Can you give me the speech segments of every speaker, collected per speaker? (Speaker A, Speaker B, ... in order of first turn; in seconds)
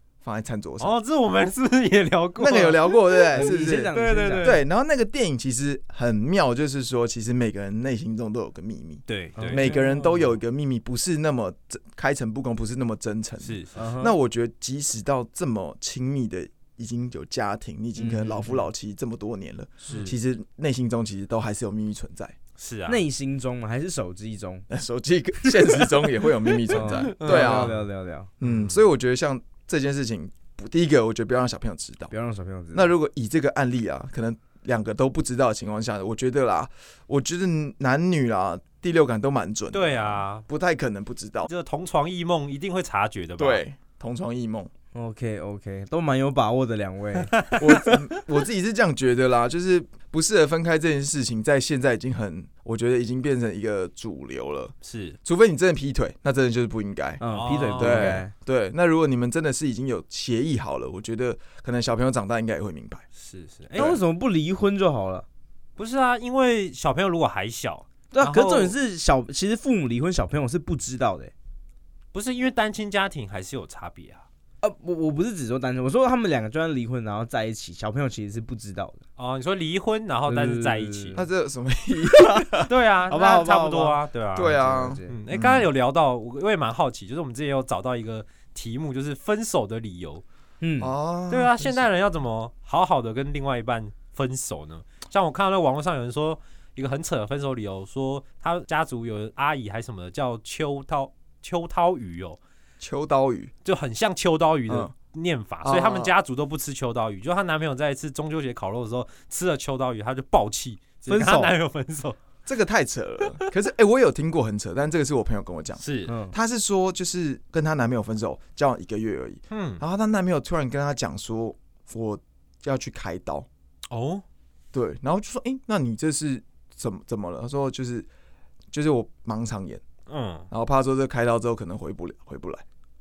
Speaker A: 0.2-1.0, 2.4-22.4, 24.7-27.8, 28.4-32.1, 32.7-41.5, 43.4-44.7, 47.6-63.0, 63.8-64.0, 81.2-82.7, 84.3-85.7, 90.8-91.9, 102.8-103.5, 105.6-106.1, 112.5-123.5, 124.7-128.1, 128.7-129.8, 130.5-132.6
Speaker B: 0.8-4.6, 9.1-9.7, 13.4-13.8, 19.9-20.2, 22.6-23.1, 26.7-27.9, 28.4-28.9, 39.7-40.5, 41.5-43.6, 54.8-55.2, 57.3-58.2, 63.2-64.0, 65.8-68.8, 72.1-74.2, 79.2-81.2, 82.7-90.2, 91.3-102.4, 103.7-112.2, 115.8-116.1, 119.5-119.8, 123.9-124.2, 130.1-130.5
Speaker C: 3.3-4.6, 9.4-10.3, 13.8-14.2, 18.0-18.7, 22.9-24.7, 26.7-28.3, 32.1-33.0, 44.9-47.9, 57.2-58.3, 63.8-65.3, 68.1-71.3, 74.6-79.0, 80.3-81.2, 82.1-82.5, 83.1-85.2, 90.6-90.9, 111.1-111.6, 116.1-116.4